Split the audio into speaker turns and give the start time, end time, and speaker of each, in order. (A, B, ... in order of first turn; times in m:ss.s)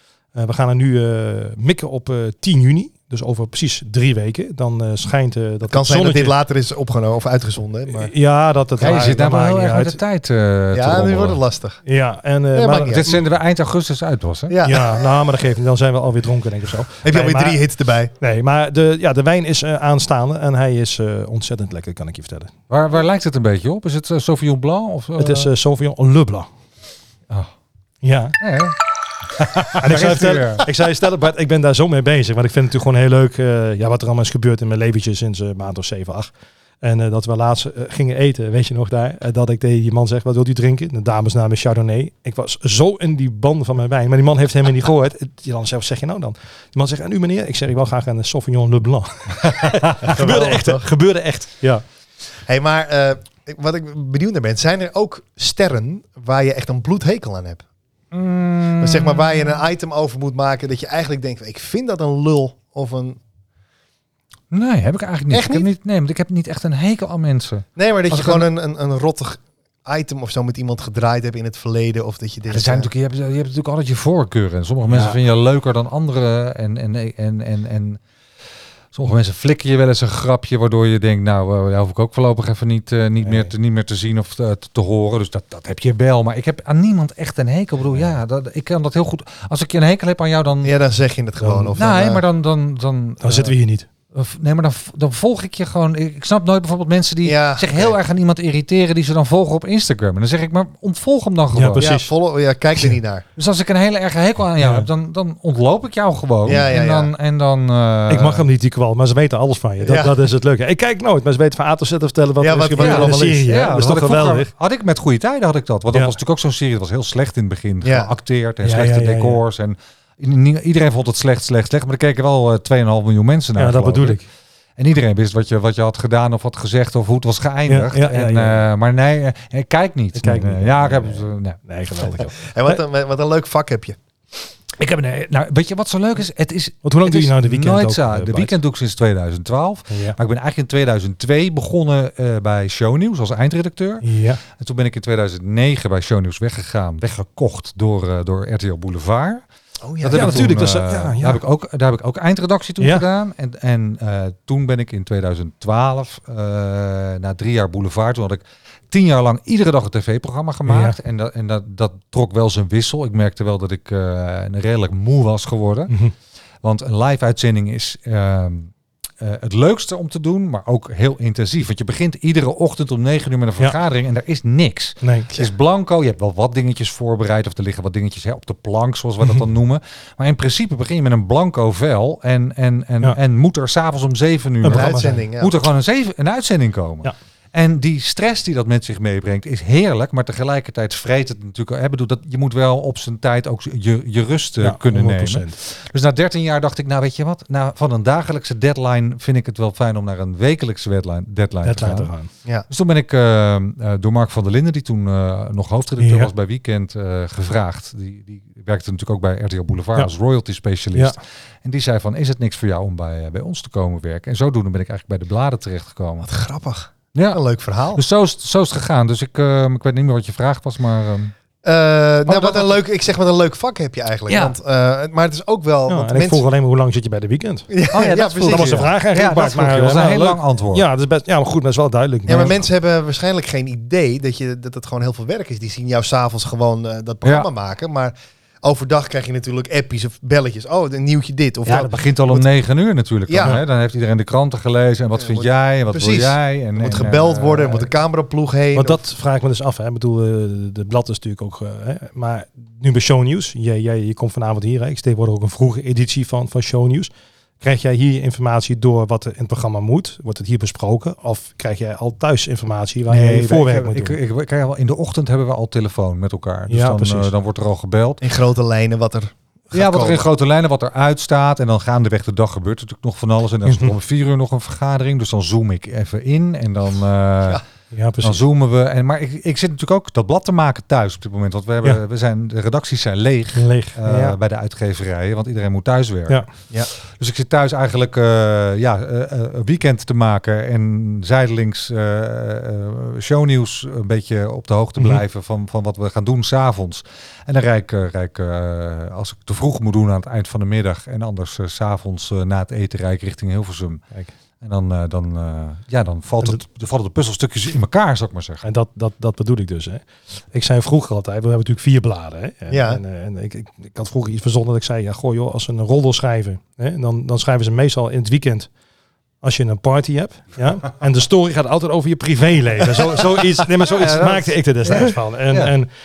0:00.4-0:06.4 A
0:05.7-0:08.1 B
0:07.9-0:10.0 A
0:08.8-0:11.4 C
0:10.7-0:11.8 B
0:11.8-0:13.2 A
0:12.5-0:13.2 B
0:12.9-0:14.6 C
0:14.5-0:15.0 B
0:14.6-0:17.6 A
0:17.0-0:18.1 B
0:18.2-0:22.5 A
0:22.7-0:25.5 C
0:25.2-0:26.5 A
0:28.0-0:28.4 A
0:28.4-0:28.8 C
0:29.3-0:30.7 C
0:29.8-0:51.8 A
0:49.6-0:49.9 C
0:50.0-0:50.9 B
0:52.5-0:57.6 B
0:58.1-0:59.6 C
0:58.8-1:03.2 B
1:04.5-1:08.5 C
1:05.3-1:05.7 B
1:07.8-1:12.9 B
1:12.5-1:18.0 C
1:18.9-1:30.7 C
1:23.2-1:23.5 A
1:30.6-1:32.2 B
1:31.4-1:31.8 A
1:31.8-1:33.6 C
1:33.2-1:33.9 A
1:34.1-1:41.9 C
1:37.2-1:38.0 B
1:41.5-1:42.1 A
1:41.8-1:43.2 B
1:43.4-1:48.4 C
1:44.6-1:44.9 A
1:46.4-1:47.1 B
1:48.1-1:54.5 A
1:49.8-1:50.2 B
1:52.4-1:53.4 B
1:52.8-2:04.2 C
1:57.8-1:58.1 B
1:58.6-1:59.4 A
2:03.6-2:04.3 A
2:04.8-2:12.1 C
2:07.7-2:08.7 A
2:10.2-2:12.8 A
2:12.3-2:14.0 B
2:14.8-2:29.4 C
2:16.8-2:18.6 A
2:19.9-2:20.2 A
2:24.0-2:24.4 A
2:29.8-2:30.6 B
2:30.0-2:45.9 C
2:30.1-2:31.4 A
2:32.8-2:33.0 A
2:40.7-2:41.0 A
2:46.6-3:22.1 C
2:55.0-2:55.3 A
3:04.6-3:05.2 A
3:04.7-3:05.6 B
3:14.6-3:15.6 A
3:21.6-3:22.3 A
3:22.7-3:36.3 C
3:26.0-3:26.3 A
3:36.2-3:38.0 B
3:37.1-3:37.4 C
3:37.9-3:41.3 C
3:41.6-3:46.4 B
3:42.3-3:42.8 C
3:44.3-3:44.6 C
3:45.9-3:47.7 A
3:47.7-3:48.9 B
3:47.9-3:50.9 C
3:48.5-3:52.6 A
3:52.3-4:02.4 B
4:01.7-4:07.9 C
4:03.3-4:03.6 B
4:05.2-4:09.0 B
4:08.8-4:24.2 A
4:23.1-4:28.2 C
4:26.7-4:27.3 A
4:28.2-4:30.2 B
4:29.7-4:37.6 C
4:33.6-4:33.9 A
4:37.9-4:38.4 A
4:38.2-4:46.4 C
4:43.6-4:44.4 A
4:47.0-5:04.0 C
5:04.6-5:08.6 C
5:08.6-5:18.7 A
5:12.7-5:13.0 B
5:19.4-5:25.9 A
5:23.8-5:25.7 C